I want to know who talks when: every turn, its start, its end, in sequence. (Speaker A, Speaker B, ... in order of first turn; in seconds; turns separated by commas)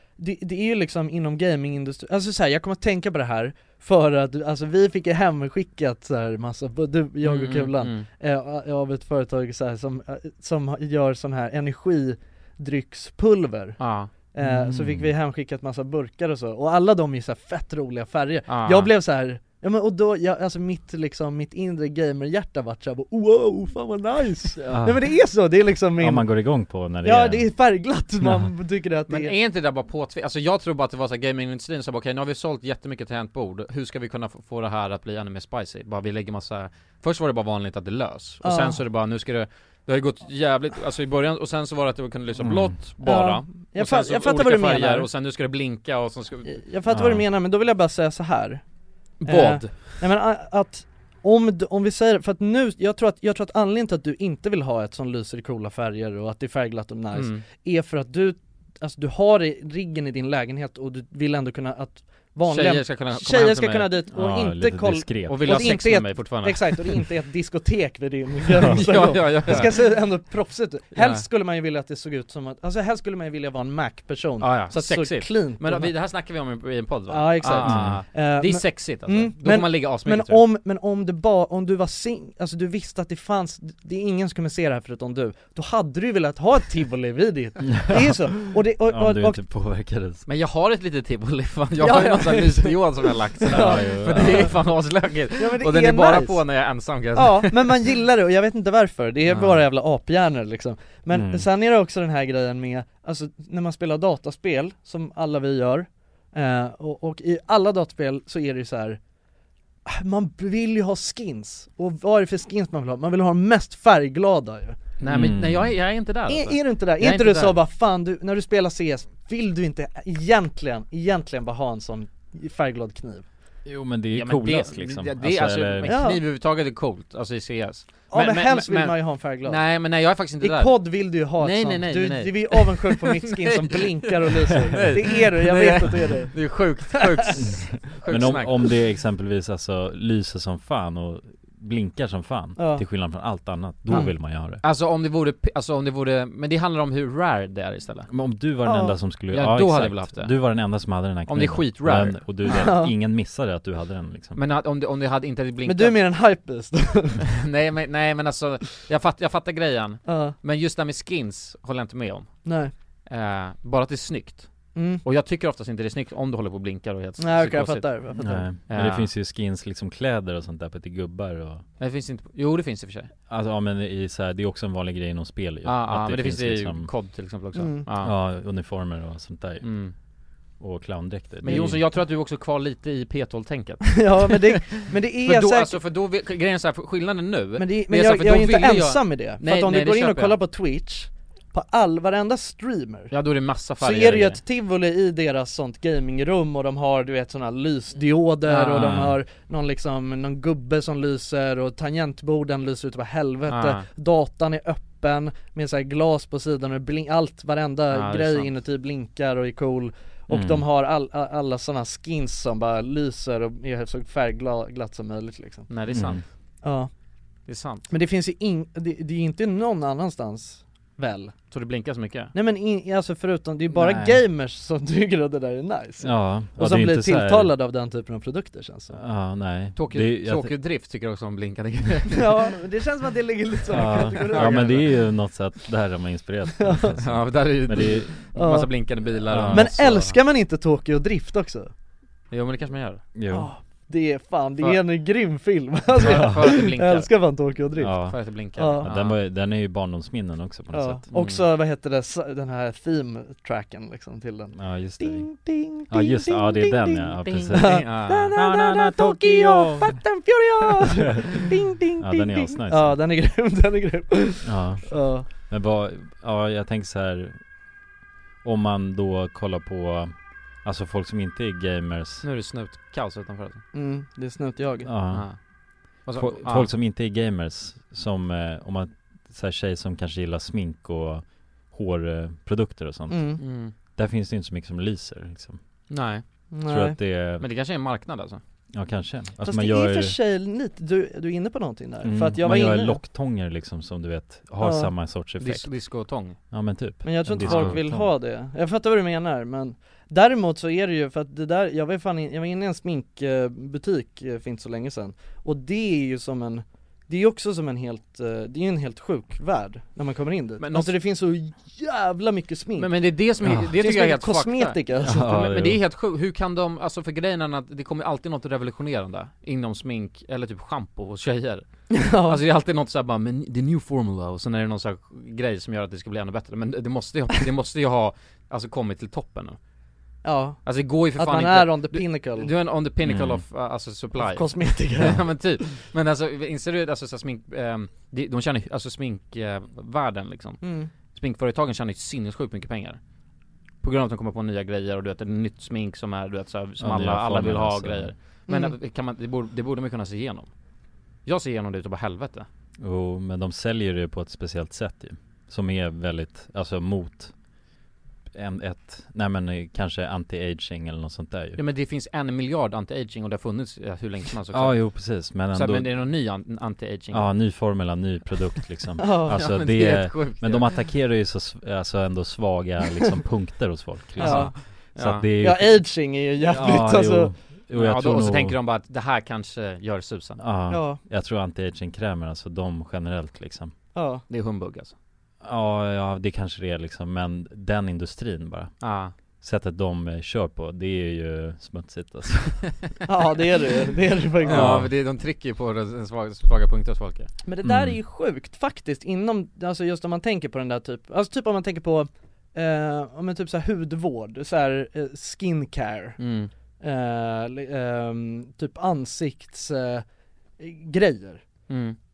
Speaker A: 0.2-13.8, Speaker B: 7.2-8.1, Speaker B: 13.8-14.1, Speaker A: 14.3-26.3, Speaker C: 14.4-15.1, Speaker B: 18.5-18.9, Speaker C: 24.6-25.1, Speaker C: 26.0-27.5, Speaker A: 27.0-29.3, Speaker C: 28.2-28.5, Speaker B: 29.1-46.6, Speaker A: 38.4-38.8, Speaker C: 42.4-42.7, Speaker A: 43.0-45.1, Speaker A: 46.5-48.6, Speaker C: 46.9-47.2, Speaker B: 49.2-49.9, Speaker A: 49.2-75.9, Speaker B: 57.1-57.4, Speaker B: 62.5-64.0, Speaker C: 64.1-65.7, Speaker B: 65.3-67.0, Speaker B: 68.6-69.8, Speaker B: 70.9-71.2, Speaker B: 74.4-80.4, Speaker A: 77.1-89.4, Speaker C: 77.6-78.0, Speaker C: 87.7-90.2, Speaker B: 90.2-97.8, Speaker A: 91.8-92.8, Speaker A: 93.4-94.5, Speaker C: 93.5-94.5, Speaker A: 95.4-96.4, Speaker A: 97.2-109.0, Speaker B: 99.3-99.5, Speaker C: 101.1-101.5, Speaker A: 109.8-114.8, Speaker B: 115.0-117.6, Speaker C: 115.0-115.7, Speaker A: 116.3-123.2, Speaker C: 123.6-126.0, Speaker B: 124.1-138.6, Speaker A: 125.8-126.2, Speaker A: 128.1-129.6, Speaker A: 130.4-136.4, Speaker C: 137.4-144.6, Speaker A: 142.6-142.8, Speaker B: 144.6-148.1, Speaker C: 148.1-154.4, Speaker A: 148.6-148.9, Speaker B: 149.3-150.3, Speaker B: 151.2-152.7, Speaker A: 152.4-152.9, Speaker B: 154.3-156.0, Speaker A: 155.7-157.2, Speaker B: 157.2-162.4, Speaker A: 160.1-160.3, Speaker A: 162.4-162.7, Speaker B: 163.1-168.0, Speaker A: 164.7-165.0, Speaker A: 167.2-168.5, Speaker C: 168.2-171.6, Speaker B: 168.7-169.1, Speaker B: 171.8-173.1, Speaker C: 173.3-176.9, Speaker B: 175.6-178.1, Speaker A: 177.5-177.8, Speaker C: 178.0-179.7, Speaker B: 179.6-179.9, Speaker C: 180.6-181.8, Speaker B: 181.4-190.4, Speaker A: 181.4-181.8, Speaker A: 183.9-185.8, Speaker A: 187.6-193.1, Speaker B: 193.1-194.4, Speaker A: 193.8-215.7, Speaker B: 198.5-199.1, Speaker C: 198.7-199.2, Speaker B: 203.5-203.8, Speaker B: 207.9-208.5, Speaker C: 210.3-210.6, Speaker B: 215.7-216.2, Speaker C: 215.9-216.2, Speaker A: 216.6-216.9, Speaker B: 217.5-217.9, Speaker A: 217.9-221.3, Speaker B: 221.5-222.3, Speaker A: 222.3-229.0, Speaker C: 223.7-224.2, Speaker C: 226.0-227.5, Speaker C: 228.9-230.5, Speaker B: 229.8-232.5, Speaker A: 232.1-234.8, Speaker C: 233.7-238.1, Speaker B: 234.1-234.9, Speaker A: 236.6-236.9, Speaker B: 237.0-240.2, Speaker A: 238.3-238.7, Speaker C: 239.3-239.7, Speaker A: 239.5-241.7, Speaker B: 242.3-243.0, Speaker C: 243.1-243.5, Speaker A: 243.3-247.9, Speaker B: 245.9-247.1, Speaker C: 246.0-246.4, Speaker C: 247.8-248.2, Speaker B: 248.1-249.2, Speaker A: 248.6-248.9, Speaker C: 248.7-251.0, Speaker A: 250.7-265.3, Speaker B: 251.1-251.4, Speaker C: 254.6-260.0, Speaker B: 257.2-258.3, Speaker C: 261.9-263.0, Speaker C: 264.4-267.4, Speaker C: 268.4-272.2, Speaker B: 272.2-273.6, Speaker A: 273.7-274.9, Speaker C: 274.8-275.3, Speaker B: 275.1-275.4, Speaker B: 276.0-276.7, Speaker C: 276.1-283.4, Speaker A: 283.1-283.4, Speaker B: 283.4-283.7, Speaker C: 283.9-285.6, Speaker B: 285.9-286.2, Speaker A: 286.5-287.0, Speaker C: 286.6-287.4, Speaker B: 287.4-288.4, Speaker C: 288.7-290.2, Speaker A: 289.4-293.0, Speaker C: 292.0-295.7, Speaker A: 294.6-294.9, Speaker B: 295.4-296.4, Speaker C: 296.5-298.1, Speaker A: 297.0-312.9, Speaker B: 297.4-297.7, Speaker B: 310.6-310.9, Speaker B: 312.8-321.6, Speaker C: 313.4-313.7, Speaker A: 313.6-315.5, Speaker C: 315.0-315.8, Speaker A: 321.9-322.4, Speaker B: 322.2-329.6, Speaker A: 330.2-330.6, Speaker B: 330.6-343.0, Speaker A: 331.1-332.5, Speaker C: 333.0-333.4, Speaker A: 334.2-335.2, Speaker A: 340.6-340.9, Speaker B: 343.8-350.5, Speaker C: 346.8-348.1, Speaker A: 348.5-348.7, Speaker B: 351.2-352.5, Speaker C: 352.8-357.3, Speaker C: 358.3-361.6, Speaker B: 361.6-367.3, Speaker C: 364.5-365.9, Speaker C: 367.1-378.6, Speaker A: 369.0-369.4, Speaker B: 369.3-370.7, Speaker B: 374.2-375.2, Speaker A: 374.2-374.5, Speaker A: 375.4-377.3, Speaker B: 377.7-380.4, Speaker C: 380.4-383.7, Speaker A: 380.7-381.0, Speaker A: 383.9-384.2, Speaker B: 384.3-384.9, Speaker C: 385.4-388.8, Speaker B: 388.8-389.1, Speaker C: 389.4-392.6, Speaker A: 393.1-394.8, Speaker B: 394.4-397.3, Speaker C: 394.4-394.9, Speaker A: 397.4-406.2, Speaker C: 397.6-398.0, Speaker B: 406.2-406.5, Speaker A: 406.8-410.0, Speaker A: 410.6-411.4, Speaker B: 411.7-412.0